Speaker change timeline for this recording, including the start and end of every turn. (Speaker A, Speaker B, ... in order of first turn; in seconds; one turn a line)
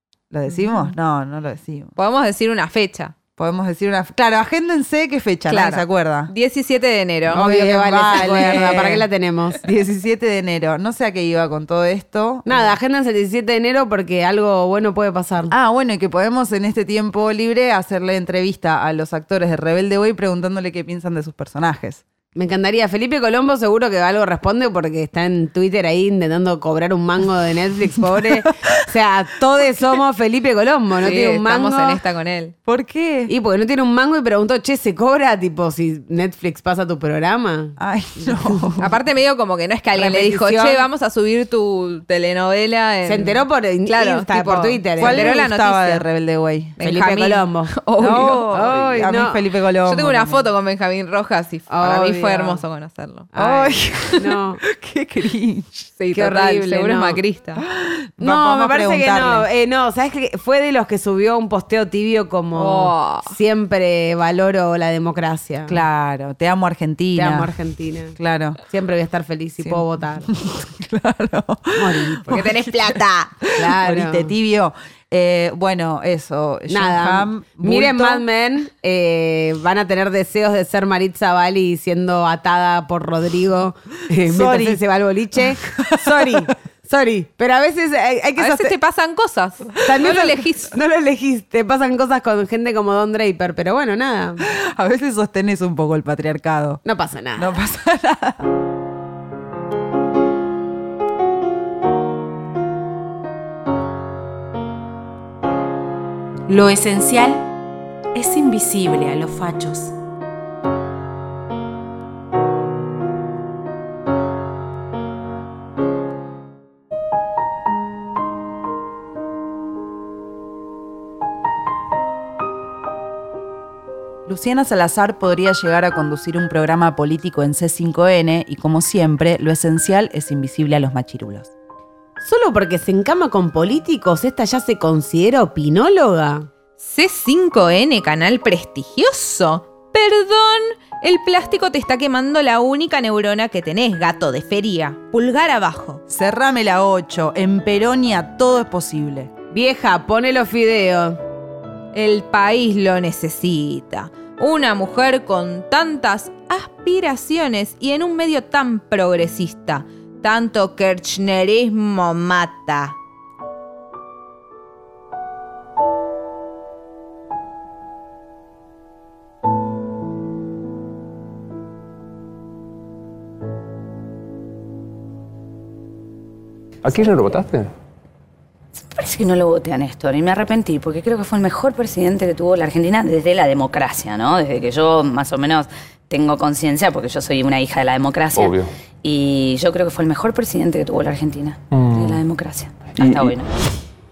Speaker A: 0.3-1.9
Speaker B: 1.9-3.1
Speaker A: 3.4-6.3
Speaker B: 5.5-8.9
Speaker C: 7.3-9.6
Speaker A: 7.3-9.1
Speaker A: 9.6-12.7
Speaker C: 12.4-15.5
Speaker A: 15.5-22.0
Speaker C: 22.3-32.0
Speaker A: 28.0-28.8
Speaker B: 31.0-32.5
Speaker A: 32.6-33.3
Speaker C: 33.3-38.8
Speaker A: 37.8-38.9
Speaker B: 38.8-46.0
Speaker C: 39.9-40.9
Speaker C: 43.0-45.3
Speaker A: 45.0-46.8
Speaker B: 46.8-48.6
Speaker C: 46.8-47.7
Speaker A: 48.0-50.5
Speaker C: 48.5-49.4
Speaker B: 49.8-53.3
Speaker C: 51.7-52.6
Speaker C: 53.3-54.6
Speaker A: 53.4-55.9
Speaker B: 56.0-57.6
Speaker C: 56.1-57.2
Speaker A: 57.6-59.5
Speaker C: 58.2-65.8
Speaker B: 62.5-63.3
Speaker A: 65.7-67.5
Speaker C: 67.2-70.3
Speaker A: 68.2-68.6
Speaker A: 69.6-78.2
Speaker C: 71.7-72.5
Speaker B: 72.3-73.3
Speaker C: 73.5-74.3
Speaker C: 76.7-88.7
Speaker A: 84.2-84.8
Speaker A: 85.6-86.5
Speaker B: 88.4-90.7
Speaker C: 89.8-94.4
Speaker A: 94.5-96.8
Speaker C: 96.8-97.5
Speaker A: 97.3-98.4
Speaker D: 106.5-107.4
Speaker D: 108.1-109.9
Speaker A: 124.3-131.5
Speaker C: 132.2-136.5
Speaker B: 136.8-146.0
Speaker A: 146.1-149.3
Speaker C: 149.5-151.2
Speaker B: 151.9-163.0
Speaker E: 176.8-177.7
Speaker F: 178.9-193.5
Speaker E: 188.3-188.7
Speaker E: 191.7-192.2
Speaker E: 193.0-193.3